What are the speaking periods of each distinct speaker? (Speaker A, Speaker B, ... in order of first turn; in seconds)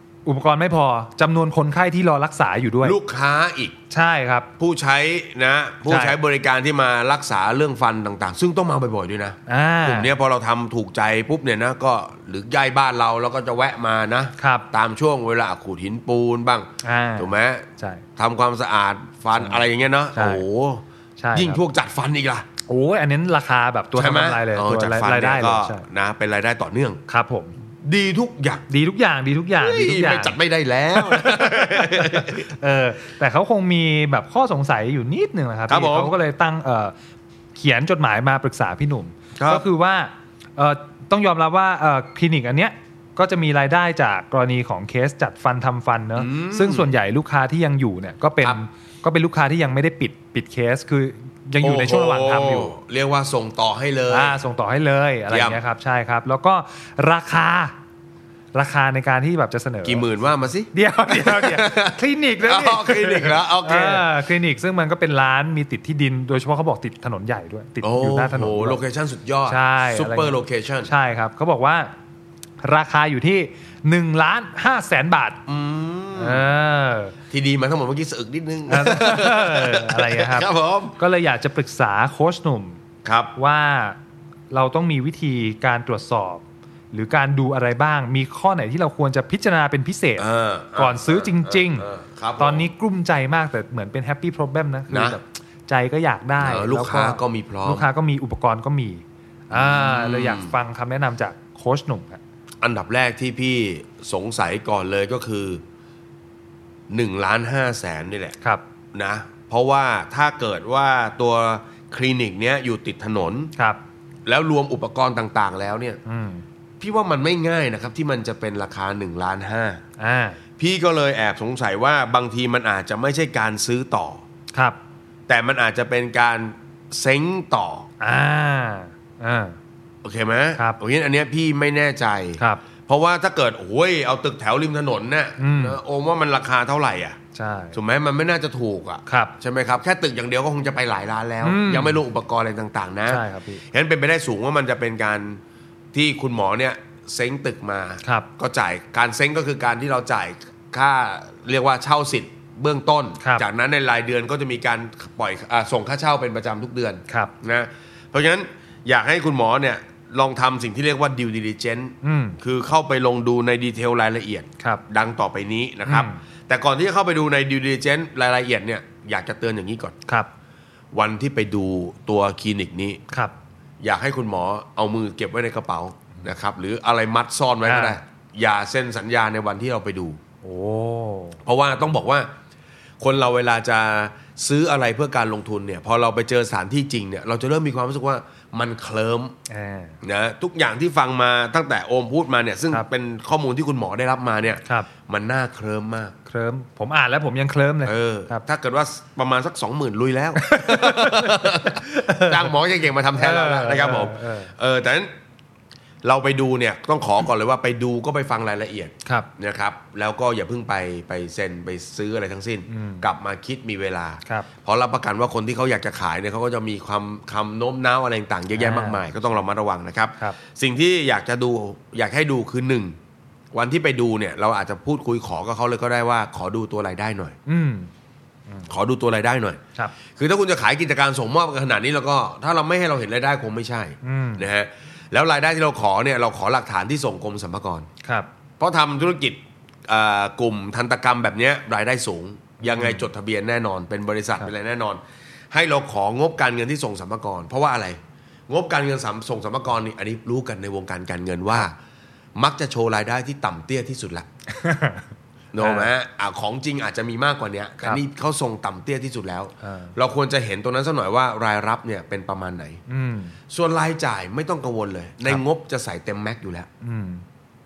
Speaker A: 0.2-3.0, 3.9-4.5, 5.9-6.2, 9.5-10.1, 14.4-14.7, 16.8-18.0, 19.4-20.4, 21.2-21.6, 22.6-25.8, 27.1-27.6, 28.7-30.4, 30.9-36.9, 37.5-52.7, 54.1-57.7, 58.5-60.1, 60.7-68.8, 69.5-71.9, 72.6-75.4, 76.2-77.1, 78.7-82.8, 83.3-84.0, 84.5-91.9, 92.4-102.2, 113.5-113.8, 116.0-116.4, 120.0-120.4, 124.5-124.8, 128.0-129.6, 135.4-135.8, 137.3-137.8, 139.1-139.3, 141.4-142.0, 143.1-143.6, 148.0-148.3, 153.2-153.4, 157.1-157.3, 162.0-162.4, 165.8-166.2, 170.0-170.3, 177.6-178.0, 180.4-181.4, 189.5-190.0, 196.2-198.4, 200.3-202.5, 203.2-204.5, 212.7-213.1, 218.5-219.1, 227.4-227.9, 234.0-234.5, 238.0-238.3, 242.6-243.1, 254.5-255.1, 255.6-255.9, 259.6-259.9, 262.9-263.4, 266.8-267.2
Speaker B: 2.8-3.8, 4.6-20.8, 21.3-22.4, 23.9-27.0, 27.8-28.6, 29.6-32.5, 35.7-36.1, 39.4-39.7, 46.1-46.9, 51.6-54.4, 55.3-55.6, 59.8-64.1, 67.8-70.9, 75.5-76.5, 77.3-80.9, 83.0-83.3, 90.2-92.7, 94.9-95.2, 96.4-97.8, 99.5-100.6, 102.6-105.6, 106.9-108.3, 108.9-113.5, 114.2-116.0, 116.8-119.8, 120.6-124.2, 125.3-127.9, 130.0-137.2, 137.7-145.4, 145.9-169.9, 170.9-173.0, 173.8-180.2, 181.4-182.3, 183.0-189.3, 190.0-196.1, 197.8-205.1, 206.0-222.9, 223.5-227.4, 228.7-229.6, 230.1-237.9, 238.6-245.0, 245.5-251.7, 252.3-254.2, 255.5-262.8, 263.5-266.7